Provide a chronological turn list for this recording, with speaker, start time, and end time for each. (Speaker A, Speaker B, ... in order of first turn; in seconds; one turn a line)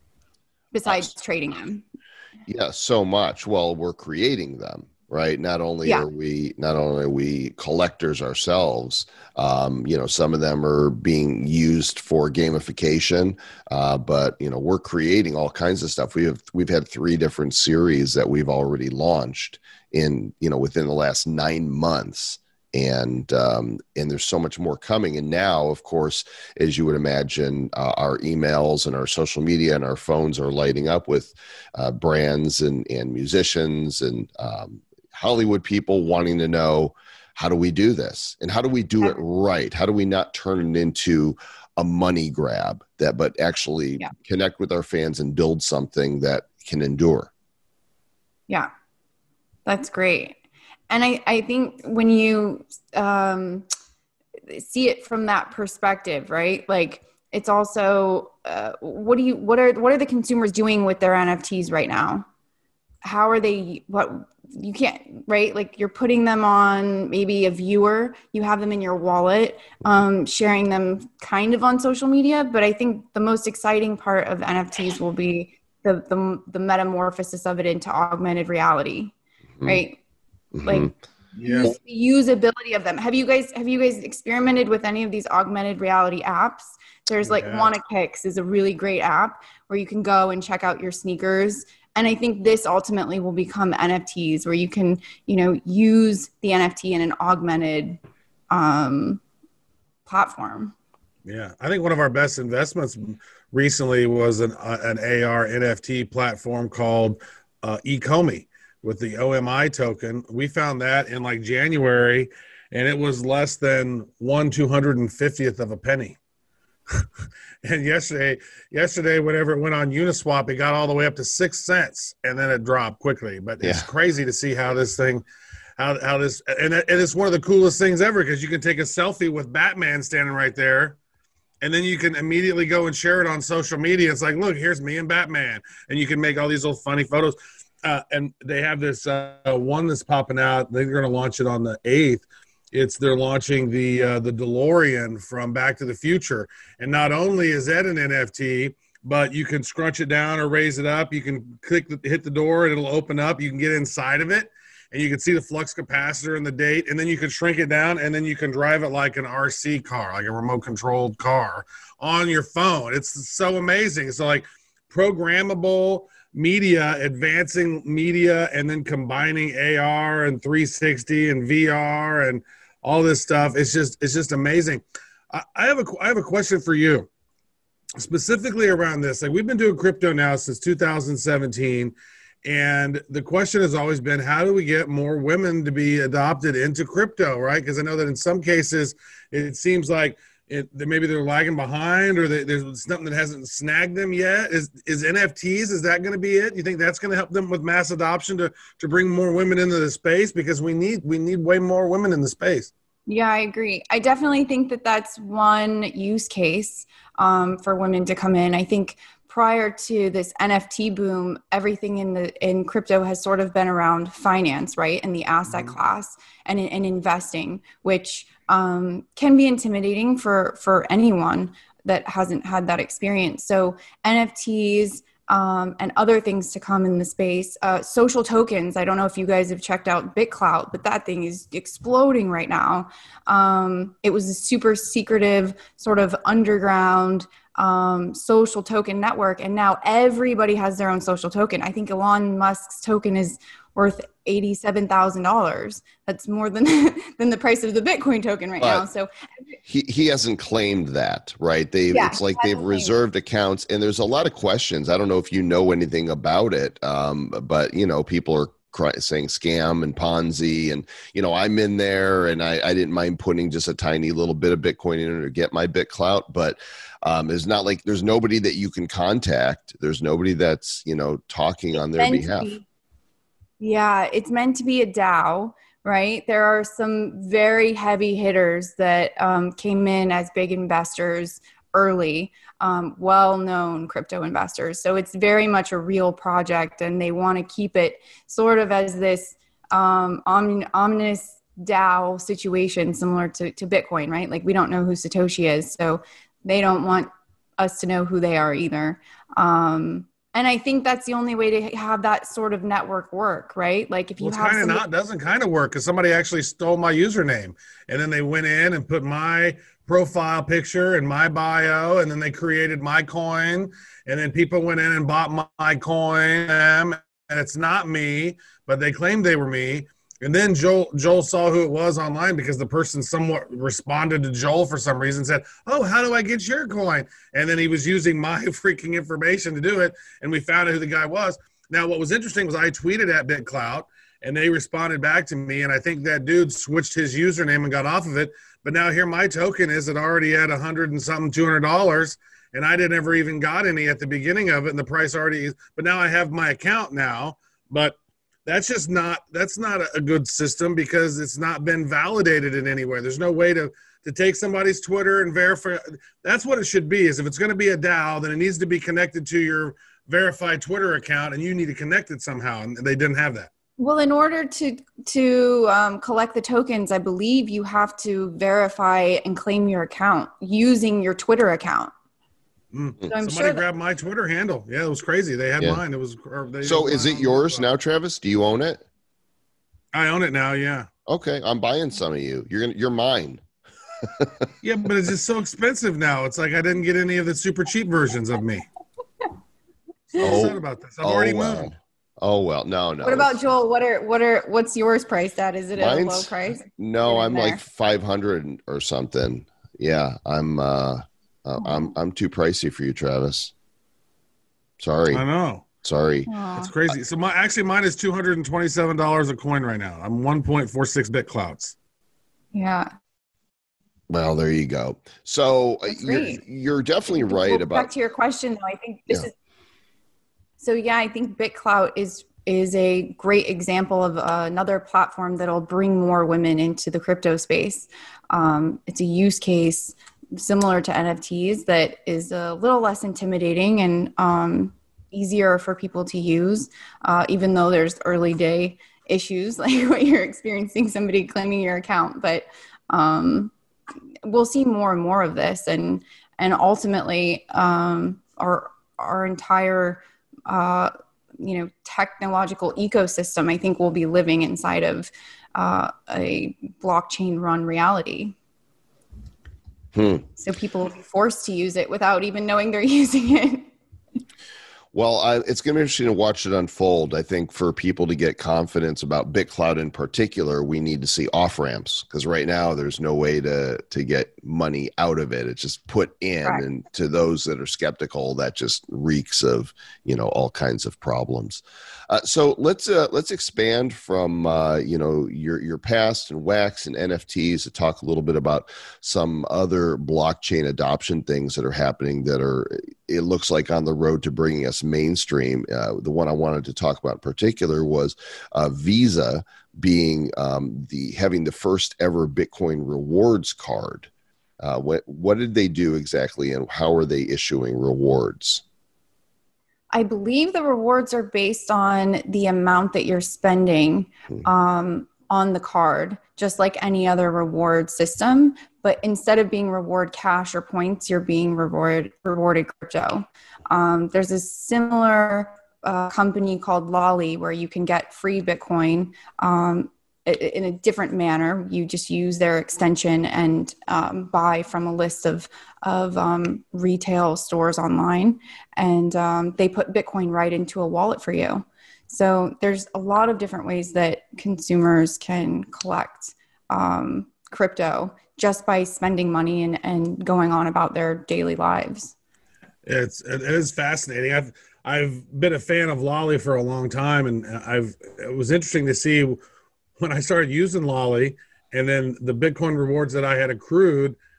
Speaker A: 0.7-1.8
Speaker B: 2.5-47.3
Speaker A: 49.7-50.4
Speaker A: 50.9-53.7
Speaker A: 54.5-62.3
Speaker A: 63.0-80.0
Speaker B: 80.5-80.9
Speaker A: 80.6-98.0
Speaker C: 81.4-81.7
Speaker C: 87.2-87.7
Speaker A: 98.5-99.2
Speaker A: 100.1-100.8
Speaker C: 101.3-116.2
Speaker C: 117.6-125.2
Speaker B: 123.6-123.9
Speaker C: 125.8-131.0
Speaker C: 131.6-177.1
Speaker C: 178.0-181.9
Speaker C: 182.4-202.7
Speaker A: 203.1-249.1
Speaker B: 248.6-248.8
Speaker B: 249.7-272.5
Speaker A: 251.9-252.9
Speaker A: 271.9-272.6
Speaker A: 273.6-304.8
Speaker C: 304.2-363.5
Speaker A: 363.8-371.9
Speaker C: 372.7-377.7
Speaker A: 373.1-373.6
Speaker B: 376.6-378.8
Speaker C: 379.9-380.9
Speaker B: 381.1-383.4
Speaker B: 384.1-384.5
Speaker C: 384.6-388.7
Speaker C: 390.1-391.7
Speaker B: 390.2-393.4
Speaker A: 393.0-397.6
Speaker B: 395.8-403.5
Speaker A: 401.6-401.9
Speaker B: 404.8-405.2
Speaker C: 405.1-405.6
Speaker B: 405.8-406.3
Speaker A: 406.3-406.7
Speaker C: 406.6-411.7
Speaker A: 412.5-412.9
Speaker B: 414.1-417.9
Speaker A: 415.9-416.4
Speaker A: 417.2-419.3
Speaker A: 420.6-443.5
Speaker A: 444.2-458.4
Speaker B: 459.9-460.3
Speaker A: 460.4-463.7
Speaker B: 464.9-504.1
Speaker B: 504.6-508.6
Speaker A: 509.9-552.1
Speaker C: 552.9-559.4
Speaker C: 560.0-564.2